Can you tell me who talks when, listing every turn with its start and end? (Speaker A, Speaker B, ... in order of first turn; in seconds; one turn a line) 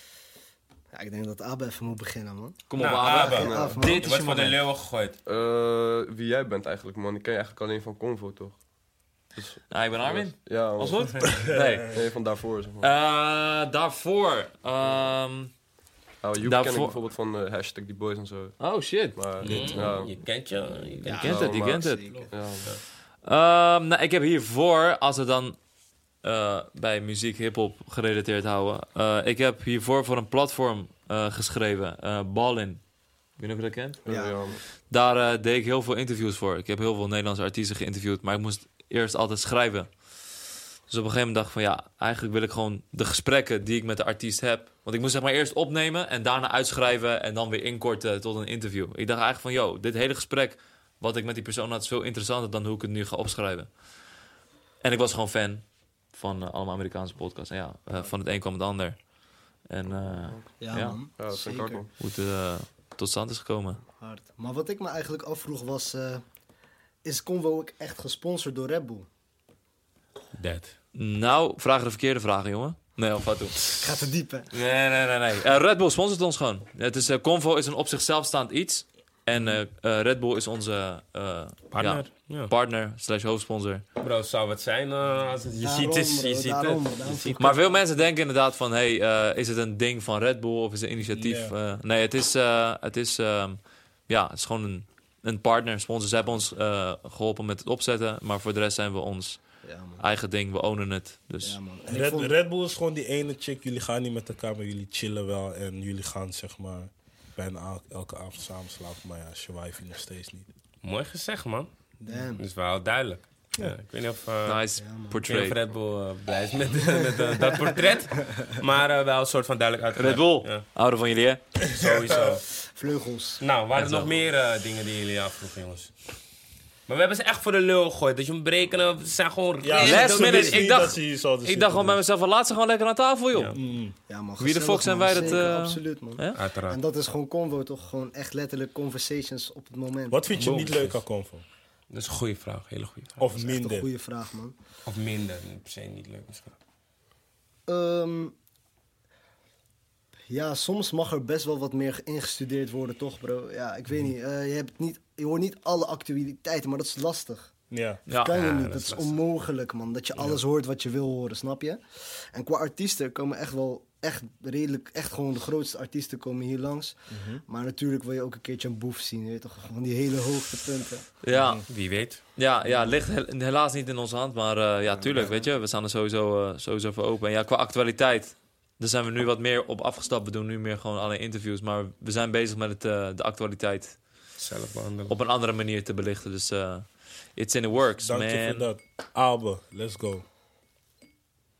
Speaker A: 0.9-4.1
Speaker B: 2.7-4.6
Speaker C: 2.7-5.2
Speaker D: 3.3-3.8
Speaker D: 5.2-8.6
Speaker D: 9.3-12.9
Speaker B: 9.7-12.0
Speaker E: 11.3-11.7
Speaker B: 12.8-15.5
Speaker D: 16.2-20.1
Speaker B: 16.4-16.9
Speaker B: 18.6-19.6
Speaker C: 19.4-21.4
Speaker E: 19.4-19.8
Speaker A: 21.0-22.3
Speaker B: 21.1-22.3
Speaker D: 21.2-22.7
Speaker C: 22.1-22.8
Speaker B: 23.2-25.6
Speaker B: 26.2-32.8
Speaker B: 33.4-34.0
Speaker D: 34.0-34.6
Speaker A: 34.1-34.4
Speaker B: 34.9-39.9
Speaker B: 40.9-53.7
Speaker B: 54.8-59.1
Speaker B: 59.6-61.0
Speaker A: 60.6-61.8
Speaker D: 61.2-61.9
Speaker B: 62.0-63.8
Speaker A: 64.0-66.2
Speaker A: 67.0-69.1
Speaker C: 70.3-70.7
Speaker B: 70.9-73.7
Speaker A: 73.7-74.5
Speaker B: 74.5-83.8
Speaker C: 81.7-82.5
Speaker C: 84.0-87.7
Speaker A: 85.6-87.8
Speaker B: 87.4-99.4
Speaker E: 91.1-91.5
Speaker A: 99.6-100.0
Speaker B: 100.0-101.6
Speaker A: 101.4-102.3
Speaker E: 101.9-110.5
Speaker C: 110.8-111.7
Speaker A: 112.0-112.4
Speaker C: 112.3-114.6
Speaker B: 114.4-115.6
Speaker A: 114.8-115.2
Speaker C: 115.3-120.6
Speaker B: 119.9-121.4
Speaker C: 121.7-122.5
Speaker A: 122.6-123.4
Speaker C: 123.4-125.9
Speaker B: 123.7-124.2
Speaker C: 126.9-130.7
Speaker E: 129.6-132.0
Speaker B: 129.8-133.6
Speaker E: 133.5-133.9
Speaker A: 134.1-140.2
Speaker B: 134.4-136.4
Speaker C: 136.3-136.8
Speaker E: 140.1-141.4
Speaker C: 140.3-141.0
Speaker C: 141.9-143.2
Speaker E: 143.2-143.9
Speaker A: 143.3-144.6
Speaker C: 144.8-146.5
Speaker A: 147.7-148.3
Speaker A: 150.3-157.5
Speaker E: 157.7-158.0
Speaker A: 158.1-161.8
Speaker B: 158.1-158.8
Speaker C: 158.3-159.2
Speaker A: 162.3-171.1
Speaker E: 167.1-167.4
Speaker B: 171.2-171.7
Speaker E: 171.3-171.6
Speaker C: 171.7-172.2
Speaker B: 172.3-184.0
Speaker A: 174.9-175.4
Speaker C: 184.4-185.1
Speaker B: 185.1-188.7
Speaker E: 188.0-190.2